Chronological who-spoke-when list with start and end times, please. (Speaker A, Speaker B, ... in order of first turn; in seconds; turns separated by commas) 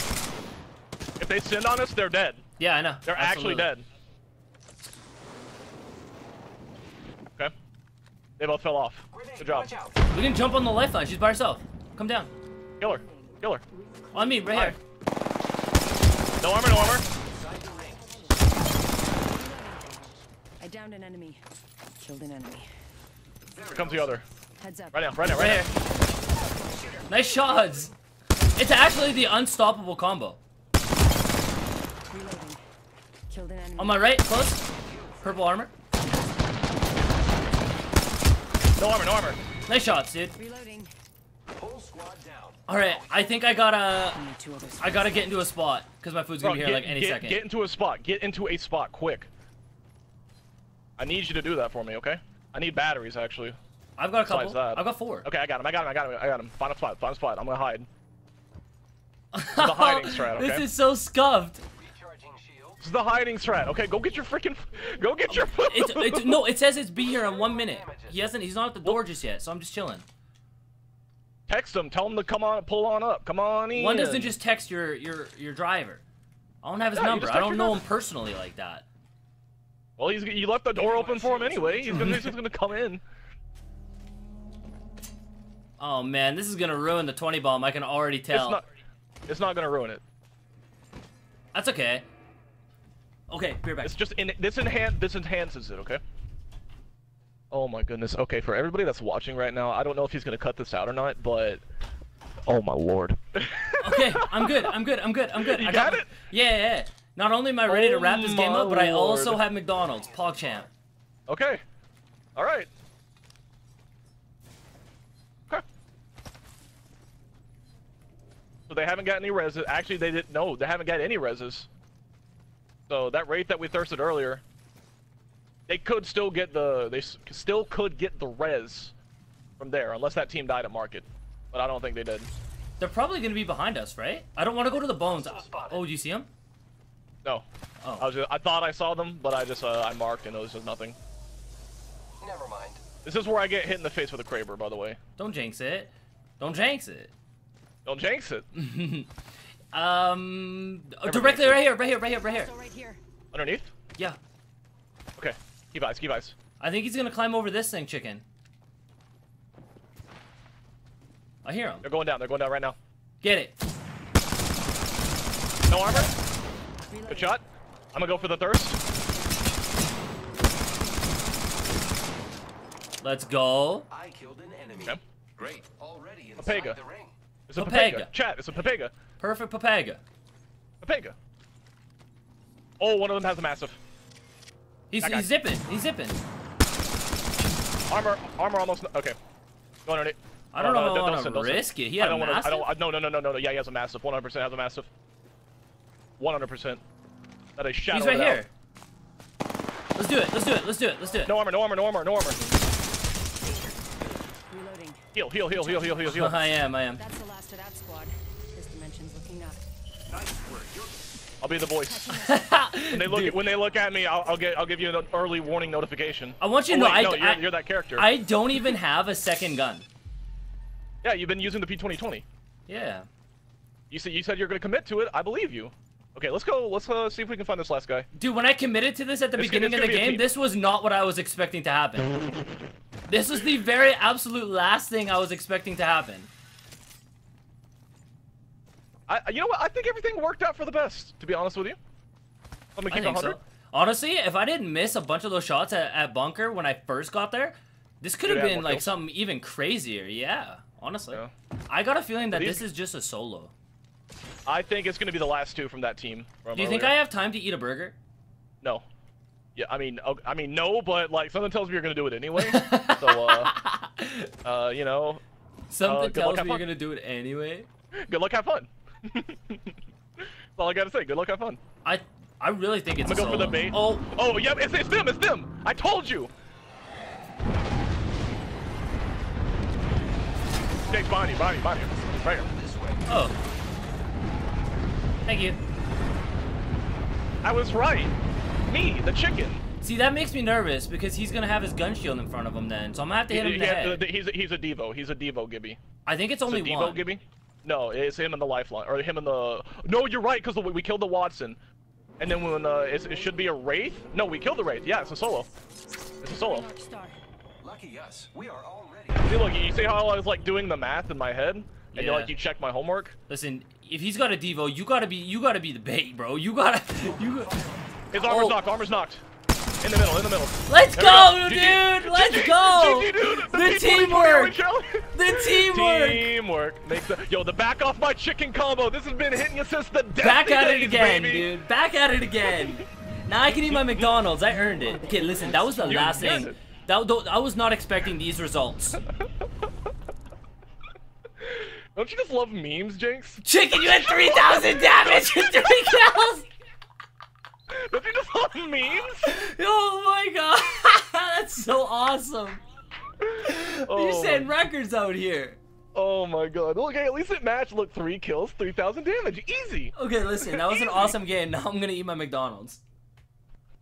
Speaker A: 1.2-2.4, Speaker B: 2.6-3.7, Speaker A: 3.0-3.9, Speaker A: 8.4-9.7, Speaker C: 9.1-9.9, Speaker B: 10.1-12.3, Speaker A: 12.8-13.6, Speaker B: 14.1-14.8, Speaker A: 14.5-14.8, Speaker A: 16.4-17.1, Speaker C: 17.3-18.4, Speaker D: 19.3-21.4, Speaker D: 22.0-22.7, Speaker C: 23.5-24.2, Speaker A: 23.6-24.2, Speaker D: 24.6-25.1, Speaker A: 24.9-25.7, Speaker B: 25.2-25.7, Speaker B: 27.1-27.9, Speaker D: 28.4-29.1, Speaker B: 28.6-30.4, Speaker D: 32.1-32.6, Speaker D: 33.3-34.1, Speaker B: 33.8-34.6, Speaker C: 34.7-35.4, Speaker B: 35.2-35.7, Speaker A: 38.8-39.4, Speaker B: 39.7-40.4, Speaker D: 40.4-40.9, Speaker C: 41.5-42.7, Speaker B: 42.7-44.2, Speaker D: 44.1-45.4, Speaker B: 44.8-47.4, Speaker A: 46.4-49.3, Speaker A: 51.0-53.6, Speaker B: 54.0-55.3, Speaker A: 54.3-57.9, Speaker B: 59.3-61.6, Speaker A: 59.6-60.7, Speaker C: 61.8-62.8, Speaker A: 62.8-66.5, Speaker B: 65.3-70.0, Speaker C: 67.0-68.2, Speaker A: 71.5-74.3, Speaker B: 73.7-76.0, Speaker B: 76.6-78.8, Speaker A: 76.9-77.8, Speaker A: 80.0-83.0, Speaker C: 80.8-81.9, Speaker B: 81.9-82.4, Speaker B: 85.8-88.6, Speaker A: 88.3-88.6, Speaker A: 89.3-90.0, Speaker B: 91.5-92.1, Speaker B: 93.3-94.0, Speaker A: 93.8-96.0, Speaker A: 97.5-101.6, Speaker A: 102.5-104.7, Speaker B: 103.8-110.7, Speaker A: 105.4-106.1, Speaker A: 107.7-109.4, Speaker C: 109.8-110.7, Speaker A: 111.3-111.6, Speaker A: 112.4-112.7, Speaker A: 118.7-121.7, Speaker A: 122.9-124.4, Speaker A: 125.7-128.9, Speaker A: 129.6-132.3, Speaker B: 132.8-136.3, Speaker B: 137.8-138.1, Speaker A: 138.0-141.0, Speaker C: 142.2-142.8, Speaker A: 143.0-145.0, Speaker B: 145.2-147.1, Speaker A: 147.8-148.5, Speaker B: 148.5-149.1, Speaker B: 149.7-152.5, Speaker A: 151.1-151.7, Speaker D: 152.3-153.0, Speaker A: 153.3-153.7, Speaker A: 155.2-156.3, Speaker B: 156.6-158.2, Speaker B: 161.4-161.9, Speaker A: 161.8-162.8, Speaker B: 163.2-163.5, Speaker A: 165.7-166.1, Speaker D: 166.9-167.4, Speaker A: 167.1-168.8, Speaker D: 168.9-169.5, Speaker B: 173.0-173.9, Speaker C: 173.9-177.2, Speaker A: 176.4-176.8, Speaker A: 177.5-178.9, Speaker B: 177.6-178.1, Speaker B: 179.2-180.0, Speaker A: 180.8-181.2, Speaker A: 182.8-183.8, Speaker B: 184.9-186.2, Speaker A: 185.0-185.3, Speaker A: 187.9-189.2, Speaker A: 189.8-194.9, Speaker B: 190.5-192.7, Speaker A: 196.2-196.8, Speaker A: 197.6-198.4, Speaker B: 197.9-198.5, Speaker B: 200.0-201.3, Speaker A: 201.2-202.4, Speaker D: 204.5-206.1, Speaker A: 205.1-206.4, Speaker B: 206.1-207.0, Speaker D: 207.0-209.6, Speaker C: 210.1-210.9, Speaker A: 211.4-212.1, Speaker D: 211.9-212.5, Speaker B: 212.1-213.4, Speaker A: 212.9-218.1, Speaker B: 216.4-219.9, Speaker A: 221.0-222.2, Speaker B: 222.7-223.1, Speaker A: 223.9-228.1, Speaker B: 228.1-232.2, Speaker A: 229.4-230.2, Speaker B: 233.1-236.3, Speaker A: 239.1-241.8, Speaker A: 242.8-243.4, Speaker B: 242.9-253.5, Speaker A: 248.2-248.9, Speaker A: 252.3-252.7, Speaker A: 254.5-257.0, Speaker B: 256.5-258.0, Speaker A: 259.6-263.5, Speaker B: 262.4-264.3, Speaker A: 264.4-265.2, Speaker B: 265.7-267.7, Speaker A: 265.8-266.7, Speaker A: 268.1-271.6, Speaker B: 271.8-274.1, Speaker A: 273.1-276.3, Speaker A: 280.9-282.5, Speaker C: 281.9-283.1, Speaker B: 283.1-283.4, Speaker B: 285.3-285.6, Speaker A: 287.4-288.1, Speaker A: 288.7-289.6, Speaker B: 289.8-294.1, Speaker A: 293.3-295.8, Speaker B: 296.1-297.1, Speaker A: 296.5-301.6, Speaker A: 302.2-305.5, Speaker A: 306.2-306.7, Speaker D: 306.3-307.2, Speaker C: 307.6-309.4, Speaker A: 309.2-313.2, Speaker B: 311.9-312.3, Speaker B: 313.3-317.6, Speaker C: 317.0-318.1, Speaker A: 318.1-319.2, Speaker B: 318.1-318.6, Speaker A: 319.8-331.5, Speaker B: 320.7-324.6, Speaker B: 325.1-326.3, Speaker B: 330.2-339.0, Speaker A: 332.5-332.8, Speaker A: 333.6-334.1, Speaker D: 334.9-336.4, Speaker A: 335.8-336.6, Speaker A: 341.4-345.8, Speaker B: 343.4-346.5, Speaker A: 347.7-349.4, Speaker B: 349.2-352.6, Speaker B: 353.4-355.6, Speaker A: 353.9-354.5, Speaker A: 355.9-361.1, Speaker B: 359.9-362.8